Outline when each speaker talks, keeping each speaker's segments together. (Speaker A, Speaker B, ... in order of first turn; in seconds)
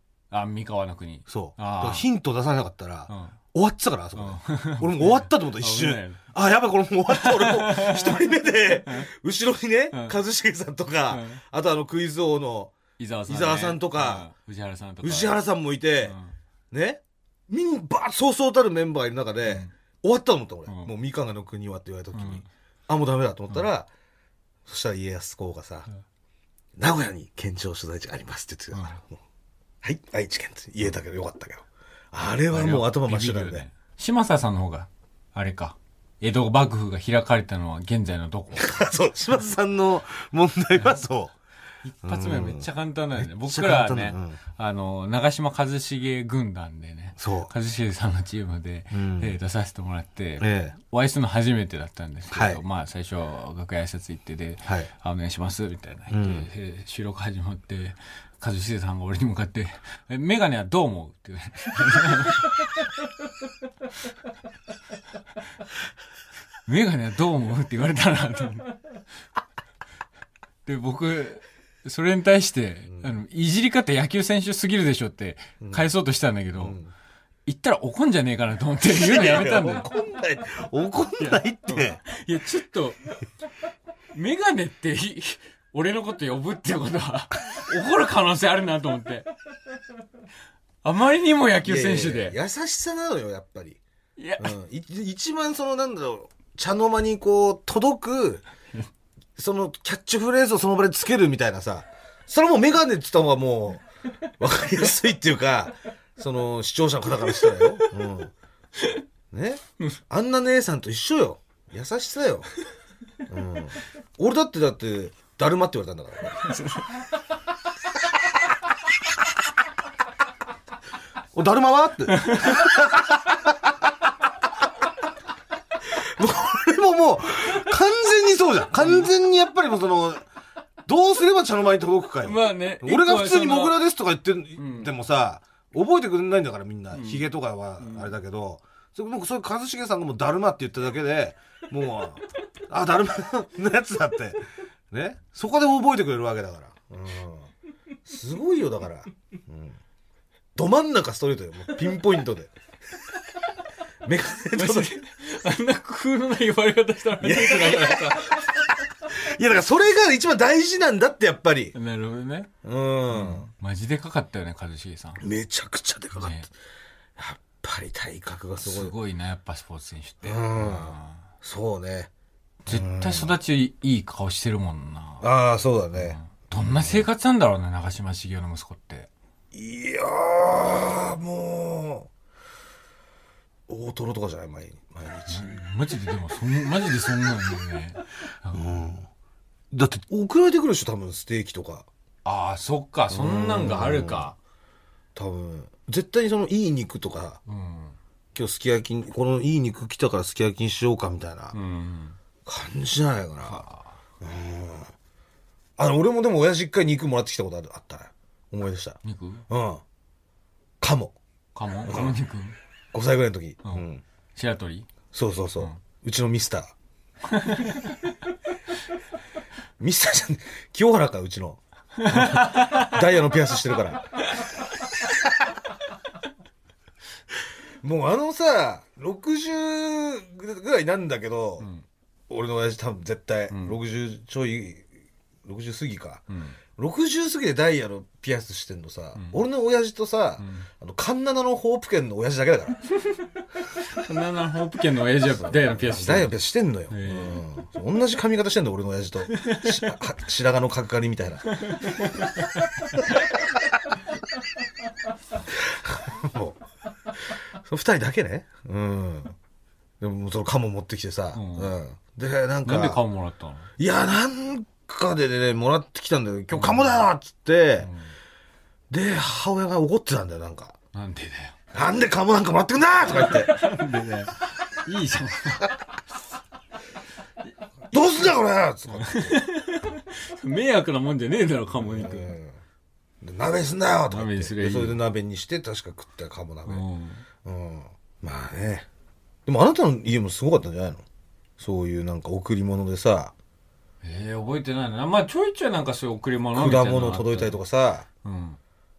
Speaker A: 0.3-2.0, 3.1-3.4, 4.2-6.3, 7.1-9.1, 11.1-11.4, 13.0-15.4, 16.0-16.3, 20.6-20.9, 22.1-22.5, 32.5-38.8, 41.8-62.7, 66.7-68.8, 70.6-76.8, 77.5-79.8, 81.2-83.1, 84.1-89.3, 90.8-92.3, 94.2-94.5, 107.3-107.6, 116.4-116.9, 122.2-122.6, 128.8-129.1, 132.2-133.8, 134.6-134.9, 136.9-137.2, 137.8-138.1, 154.5-158.6, 161.7-162.5, 163.1-165.2, 166.2-166.5, 168.6-171.2, 172.7-175.2, 175.9-179.1, 185.3-188.6, 192.2-194.3, 197.5-197.9, 201.5-202.2, 203.4-203.9, 209.0-209.4, 211.5-212.6, 214.3-214.9, 217.3-217.9, 222.0-222.9, 231.6-231.8, 233.5-233.8, 236.3-236.6, 239.1-239.4, 240.4-240.7, 243.8-246.3, 246.9-247.4, 249.3-249.8, 251.5-253.3, 261.3-261.7, 262.6-263.7, 266.5-267.0, 267.8-268.1, 270.9-271.6, 273.1-275.8, 278.9-282.3, 284.1-285.0, 286.6-287.2, 294.0-297.6, 298.2-298.6
Speaker B: 1.3-12.8, 13.3-14.3, 15.0-16.1, 16.7-23.9, 24.6-25.9, 26.8-29.2, 29.8-33.6, 38.5-41.4, 42.0-42.7, 43.2-44.4, 47.2-47.5, 48.9-49.4, 50.4-50.7, 52.3-52.6, 54.6-54.9, 56.1-56.5, 76.5-76.9, 78.9-82.0, 91.6-93.8, 94.4-98.4, 99.3-108.3, 109.3-112.5, 113.3-116.6, 121.3-123.3, 125.9-130.2, 130.8-147.5, 148.0-149.8, 150.5-152.5, 154.0-155.0, 157.2-161.7, 162.6-163.5, 165.2-166.4, 167.2-168.9, 170.2-172.1, 172.7-173.3, 175.2-177.1, 179.5-182.1, 183.7-185.6, 188.5-189.1, 189.7-191.9, 193.1-194.3, 195.1-197.4, 198.3-201.5, 202.4-203.6, 204.2-204.9, 205.8-209.8, 210.8-211.2, 211.8-212.2, 212.9-214.0, 215.1-216.7, 219.8-224.2, 227.8-231.7, 232.3-234.8, 235.4-242.8, 245.4-251.6, 255.5-256.6, 257.2-259.3, 260.0-263.0, 263.8-267.9, 268.9-270.8, 271.7-273.6, 277.9-279.5, 281.8-282.5, 283.2-286.8, 287.4-288.9, 289.4-291.0, 291.6-293.3, 296.5-298.1